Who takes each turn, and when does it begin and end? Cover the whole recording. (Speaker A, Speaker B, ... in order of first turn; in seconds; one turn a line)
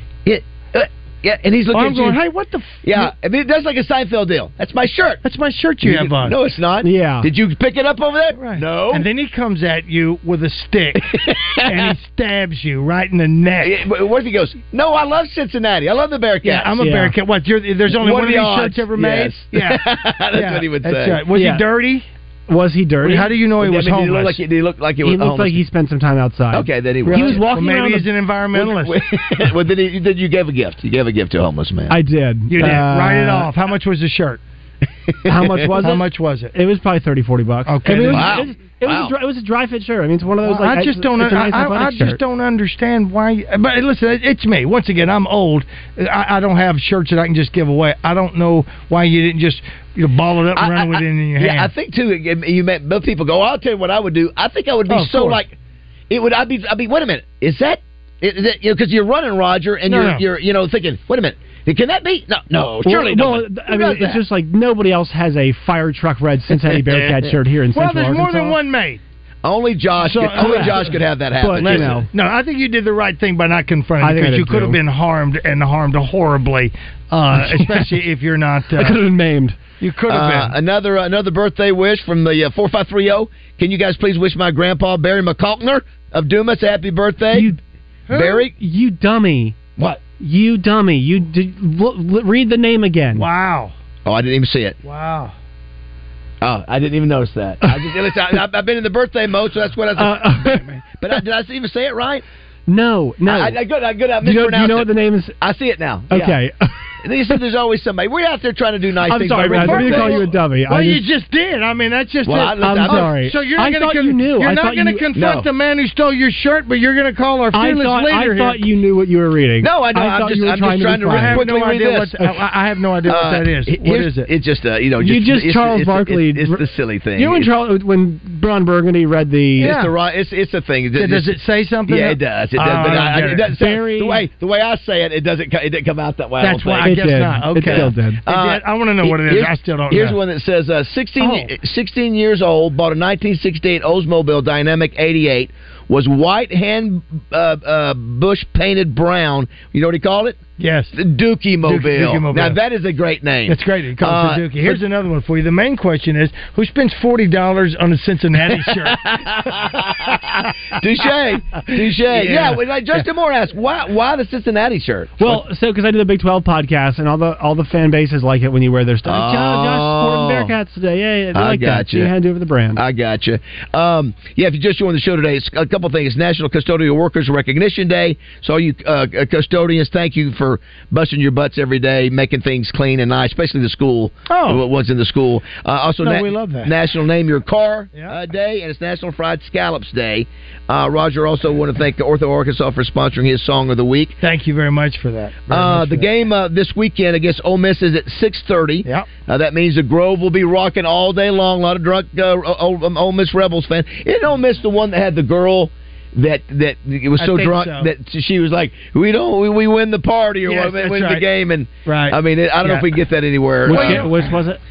Speaker A: 0.2-2.2
Speaker B: 1.7-3.1
Speaker A: 2.8-5.2
Speaker B: 5.2-6.3
Speaker A: 5.8-9.1
Speaker C: 6.8-7.3
Speaker B: 8.4-11.1
Speaker A: 10.9-11.9
Speaker B: 11.6-13.8
Speaker A: 13.6-16.8
Speaker B: 16.4-19.8
Speaker C: 16.8-17.1
Speaker A: 17.9-21.2
Speaker B: 20.3-22.1
Speaker C: 21.3-21.6
Speaker C: 22.5-23.3
Speaker B: 23.0-24.4
Speaker A: 23.6-25.6
Speaker C: 25.0-28.1
Speaker A: 26.5-27.4
Speaker B: 27.1-28.9
Speaker A: 28.5-31.9
Speaker C: 31.9-33.5
Speaker B: 32.5-34.4
Speaker A: 35.1-35.6
Speaker C: 35.2-42.2
Speaker B: 35.8-36.5
Speaker B: 37.7-38.5
Speaker A: 38.1-39.1
Speaker B: 40.4-51.7
Speaker A: 50.5-55.6
Speaker B: 54.9-55.4
Speaker A: 56.1-64.2
Speaker B: 59.9-60.2
Speaker C: 62.8-68.6
Speaker B: 67.7-69.0
Speaker A: 69.4-71.9
Speaker B: 70.0-71.0
Speaker C: 70.3-70.9
Speaker C: 71.4-72.1
Speaker B: 71.6-79.0
Speaker C: 74.0-74.8
Speaker C: 77.4-77.9
Speaker C: 78.8-79.6
Speaker B: 79.8-80.5
Speaker A: 80.1-87.5
Speaker C: 87.3-87.6
Speaker B: 88.1-88.5
Speaker A: 88.1-88.5
Speaker C: 88.5-89.6
Speaker A: 89.8-90.0
Speaker C: 90.2-93.3
Speaker B: 93.1-93.7
Speaker A: 94.0-94.8
Speaker B: 94.8-95.3
Speaker A: 96.4-102.2
Speaker C: 100.0-101.1
Speaker C: 102.7-103.6
Speaker A: 103.2-106.4
Speaker C: 104.2-105.4
Speaker C: 106.1-106.7
Speaker A: 107.0-110.3
Speaker C: 109.0-111.0
Speaker B: 109.5-118.6
Speaker A: 112.2-113.1
Speaker C: 112.6-115.0
Speaker A: 115.1-115.5
Speaker C: 117.5-121.5
Speaker A: 119.6-122.2
Speaker B: 121.1-124.3
Speaker A: 123.0-127.5
Speaker C: 125.0-126.6
Speaker C: 127.2-129.7
Speaker A: 129.6-131.3
Speaker B: 129.6-129.9
Speaker B: 131.0-133.5
Speaker A: 131.9-137.0
Speaker C: 133.5-134.2
Speaker B: 136.4-140.2
Speaker C: 136.8-138.2
Speaker A: 137.6-150.4
Speaker B: 141.2-141.5
Speaker B: 150.6-150.9
Speaker A: 150.9-154.8
Speaker B: 151.6-152.6
Speaker B: 153.5-159.0
Speaker A: 158.5-165.4
Speaker B: 161.6-163.0
Speaker C: 165.2-172.8
Speaker A: 169.1-170.5
Speaker A: 171.3-172.1
Speaker A: 172.7-194.2
Speaker B: 184.3-184.6
Speaker B: 186.0-186.7
Speaker B: 194.2-196.1
Speaker A: 195.5-214.1
Speaker B: 207.2-207.9
Speaker B: 210.4-211.2
Speaker B: 211.8-212.9
Speaker C: 213.7-214.6
Speaker B: 213.7-214.4